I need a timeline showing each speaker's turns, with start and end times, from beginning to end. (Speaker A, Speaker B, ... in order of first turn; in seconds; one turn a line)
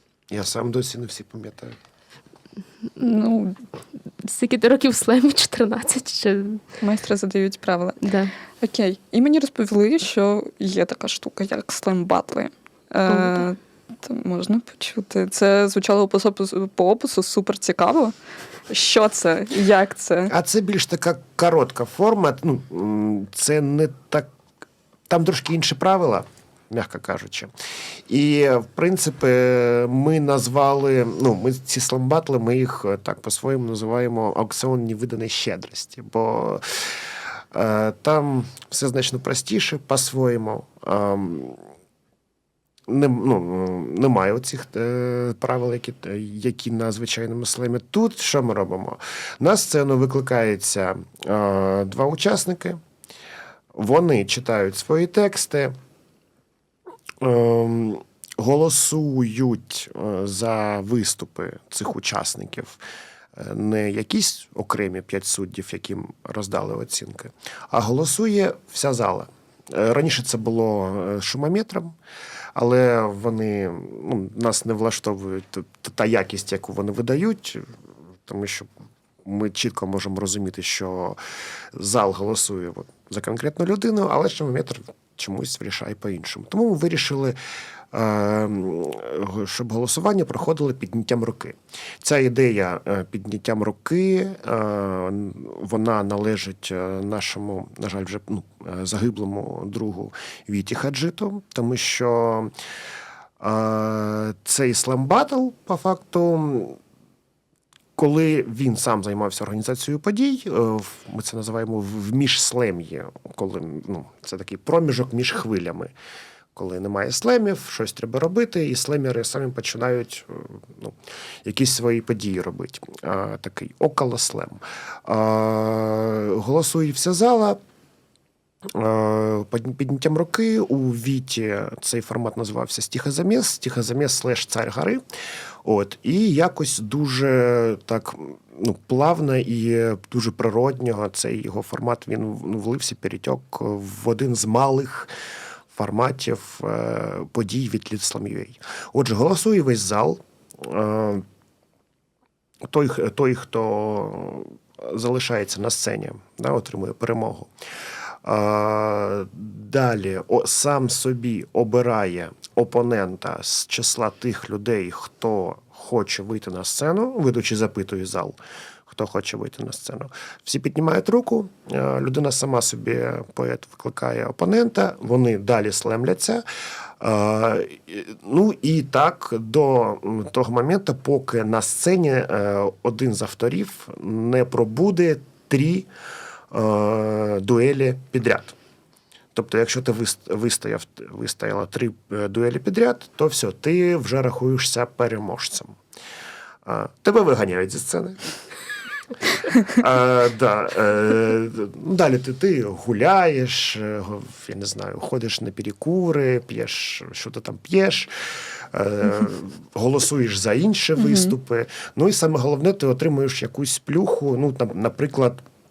Speaker A: 0.3-1.8
Speaker B: 3.0-3.6
Speaker C: 4.2-6.6
Speaker B: 6.8-8.0
Speaker C: 8.0-8.3
Speaker B: 8.6-18.1
Speaker C: 13.1-13.4
Speaker B: 18.7-20.3
Speaker A: 20.3-24.3
Speaker A: 25.1-27.5
Speaker A: 28.1-41.6
Speaker A: 42.9-52.8
Speaker A: 53.7-55.7
Speaker A: 57.2-62.8
Speaker A: 63.3-71.9
Speaker A: 72.5-77.7
Speaker A: 78.2-78.7
Speaker A: 79.2-81.2
Speaker A: 81.7-87.4
Speaker A: 87.9-102.5
Speaker A: 103.4-106.8
Speaker A: 108.0-115.9
Speaker A: 116.5-127.6
Speaker A: 128.7-135.0
Speaker A: 135.6-145.1
Speaker A: 145.7-151.2
Speaker A: 152.6-157.5
Speaker A: 158.2-168.4
Speaker A: 168.9-176.4
Speaker A: 177.0-185.9
Speaker A: 186.5-188.6
Speaker A: 189.3-195.8
Speaker A: 196.6-198.2
Speaker A: 199.7-215.4
Speaker B: 211.0-211.3